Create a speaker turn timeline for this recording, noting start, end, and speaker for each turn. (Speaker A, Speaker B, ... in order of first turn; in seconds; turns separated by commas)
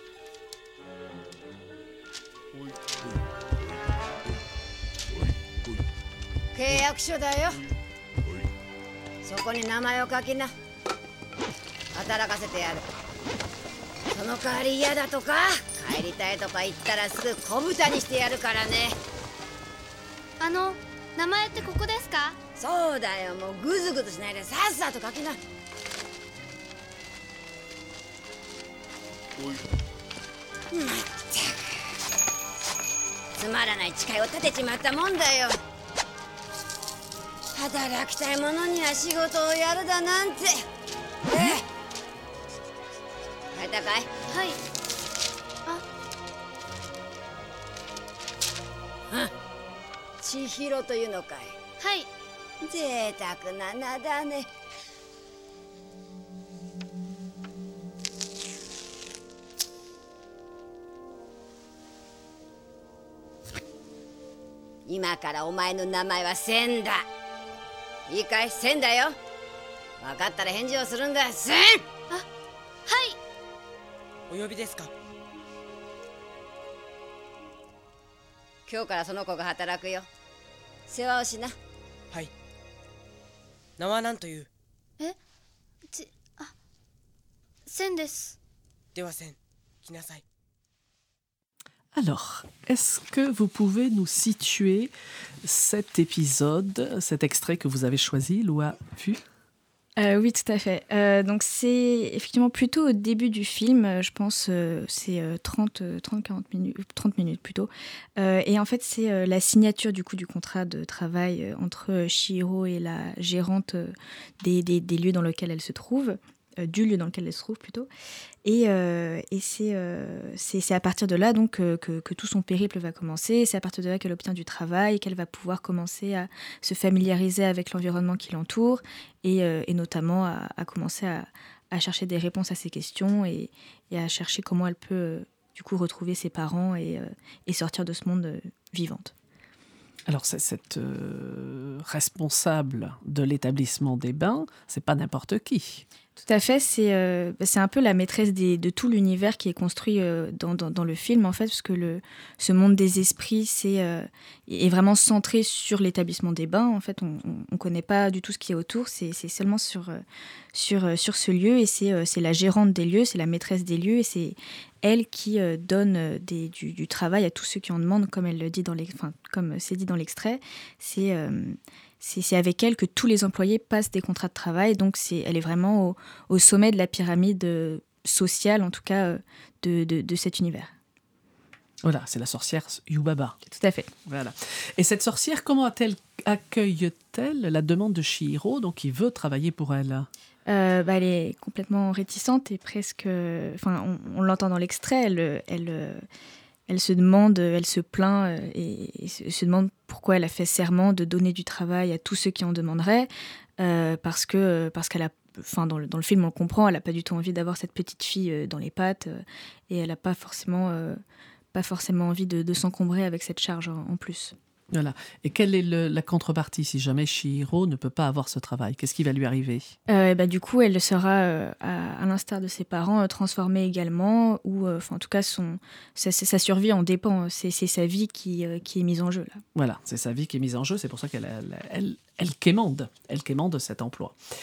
Speaker A: 6.5-7.7, Speaker A: 9.2-10.5, Speaker A: 11.9-12.8, Speaker A: 14.1-19.0, Speaker B: 20.4-22.4, Speaker A: 22.6-25.4, Speaker A: 30.7-31.8, Speaker A: 33.4-35.6, Speaker A: 37.5-40.7, Speaker A: 41.3-41.6, Speaker A: 43.5-44.1, Speaker B: 44.3-44.6, Speaker A: 50.2-51.6, Speaker B: 51.8-52.1, Speaker A: 52.6-54.5, Speaker A: 64.9-67.0, Speaker A: 68.1-69.2, Speaker A: 70.0-71.8, Speaker B: 72.9-73.2, Speaker C: 74.3-74.9, Speaker A: 78.7-80.1, Speaker A: 80.9-81.6, Speaker C: 83.8-84.5, Speaker B: 85.9-86.5, Speaker B: 87.7-88.4, Speaker C: 89.0-90.2, Speaker D: 91.9-94.9, Speaker D: 95.4-99.2, Speaker E: 100.0-117.9, Speaker E: 118.5-139.1, Speaker D: 140.1-145.8, Speaker E: 146.2-160.0, Speaker E: 160.5-180.7, Speaker D: 181.8-183.4, Speaker E: 183.5-183.9, Speaker D: 184.1-190.1, Speaker E: 190.5-196.1, Speaker E: 196.7-211.0, Speaker E: 211.5-214.3, Speaker D: 214.7-219.7, Speaker E: 219.9-229.4, Speaker D: 229.6-234.2